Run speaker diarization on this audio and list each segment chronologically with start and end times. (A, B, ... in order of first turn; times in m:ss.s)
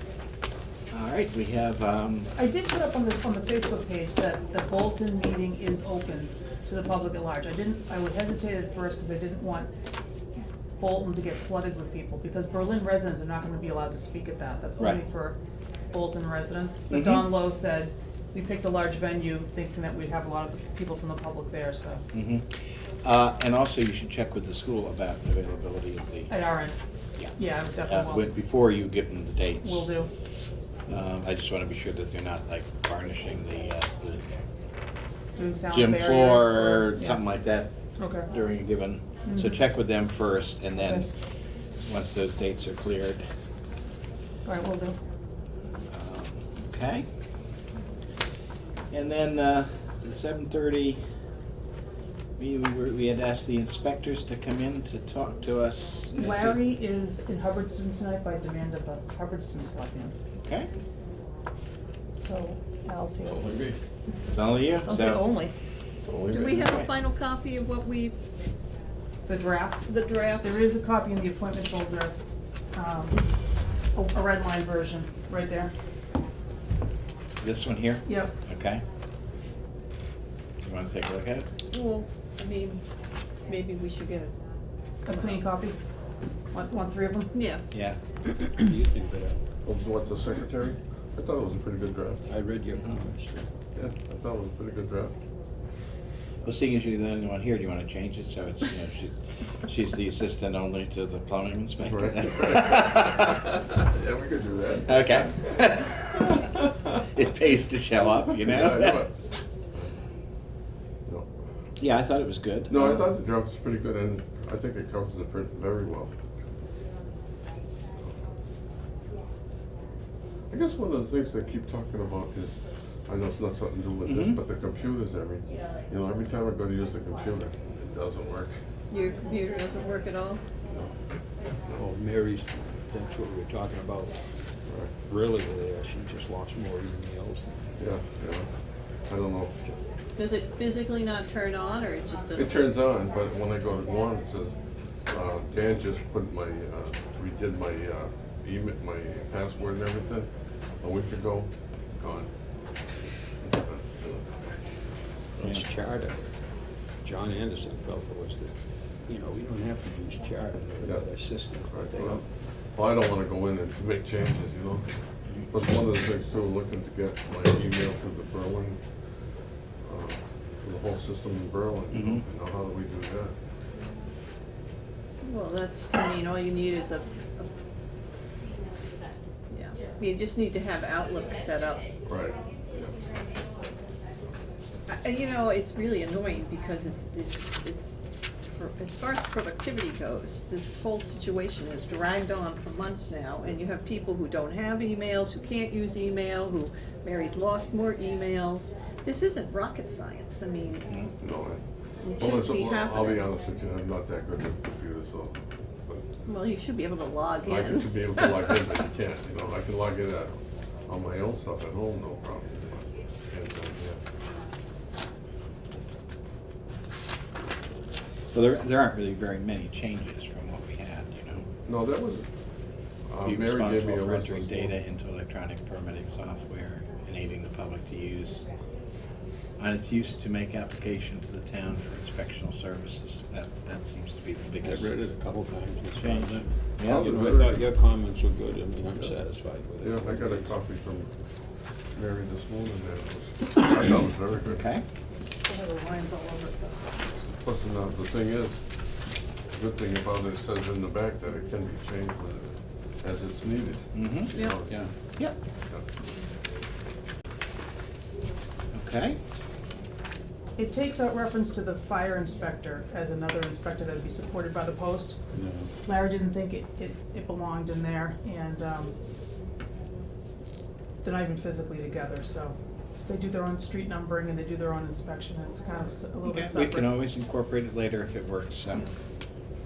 0:00.9-0:02.3 A
0:02.4-0:09.7 B
0:10.8-0:15.4 B
0:15.9-0:22.0 B
0:16.9-0:17.3 A
0:22.1-0:26.4 A
0:26.3-0:26.8 B
0:27.2-0:29.9 A
0:27.4-0:28.2 B
0:29.6-0:30.1 B
0:30.9-0:34.2 A
0:35.4-0:37.2 B
0:35.7-0:37.7 A
0:38.0-0:38.3 B
0:38.3-0:41.1 A
0:39.3-0:39.6 B
0:41.8-0:43.2 A
0:44.4-0:45.0 B
0:45.9-0:47.1 A
0:48.9-0:51.0 A
0:52.4-0:56.6 A
0:56.2-1:00.2 B
1:00.4-1:00.7 A
1:02.1-1:03.5 B
1:03.2-1:03.8 C
1:04.3-1:05.3 A
1:04.8-1:05.5 B
1:06.0-1:06.9 C
1:06.3-1:08.2 D
1:09.3-1:09.9 B
1:09.8-1:10.6 D
1:10.4-1:12.2 B
1:12.7-1:13.2 B
1:13.9-1:15.7 B
1:17.4-1:18.8 A
1:18.0-1:18.3 B
1:20.6-1:21.5 A
1:21.7-1:22.8 D
1:23.5-1:24.3 D
1:25.0-1:25.8 B
1:25.1-1:25.4 D
1:26.5-1:27.3 B
1:27.3-1:27.6 D
1:27.7-1:28.0 A
1:28.7-1:29.4 E
1:29.6-1:32.3 C
1:32.3-1:33.5 E
1:33.7-1:35.2 C
1:36.4-1:43.3 A
1:41.8-1:45.4 C
1:44.9-1:46.5 A
1:47.1-1:49.0 A
1:48.4-1:49.2 C
1:51.8-1:53.0 A
1:52.7-1:56.1 C
2:00.5-2:08.6 C
2:04.1-2:04.4 A
2:08.9-2:10.4 D
2:10.6-2:10.9 C
2:11.9-2:14.1 E
2:13.5-2:14.0 B
2:14.7-2:14.9 C
2:15.1-2:17.5 E
2:17.8-2:18.5 C
2:19.1-2:19.6 C
2:20.2-2:22.7 D
2:22.4-2:24.6 C
2:25.1-2:30.3 C
2:30.8-2:32.3 C
2:33.4-2:34.5 C
2:35.4-2:36.1 E
2:35.4-2:35.7 A
2:35.6-2:36.2 B
2:37.0-2:38.5 E
2:39.1-2:41.7 E
2:40.8-2:41.1 C
2:41.5-2:42.1 B
2:41.7-2:44.9 C
2:45.5-2:48.8 C
2:49.8-2:53.4 C
2:51.9-2:52.2 A
2:55.2-2:57.5 D
2:59.5-3:01.9 D
3:02.0-3:03.0 C
3:04.9-3:20.9 D
3:21.2-3:21.6 C
3:22.0-3:23.3 D
3:22.1-3:26.1 C
3:26.3-3:28.5 D
3:27.4-3:34.0 C
3:38.3-3:41.5 A
3:41.6-3:42.3 C
3:43.1-3:44.8 C
3:43.2-3:48.4 A
3:49.6-3:55.0 A
3:54.6-4:00.5 E
3:55.9-3:56.3 B
3:56.0-3:57.3 A
3:56.9-3:57.5 B
3:56.9-3:57.6 C
3:59.8-4:01.1 C
4:01.9-4:04.6 C
4:04.5-4:04.8 A
4:05.4-4:07.0 B
4:07.4-4:08.6 C
4:09.5-4:14.9 C
4:13.9-4:14.4 A
4:14.3-4:14.6 D
4:18.7-4:19.2 A
4:20.6-4:29.0 B
4:25.4-4:25.7 E
4:31.0-4:36.9 B
4:36.2-4:38.9 A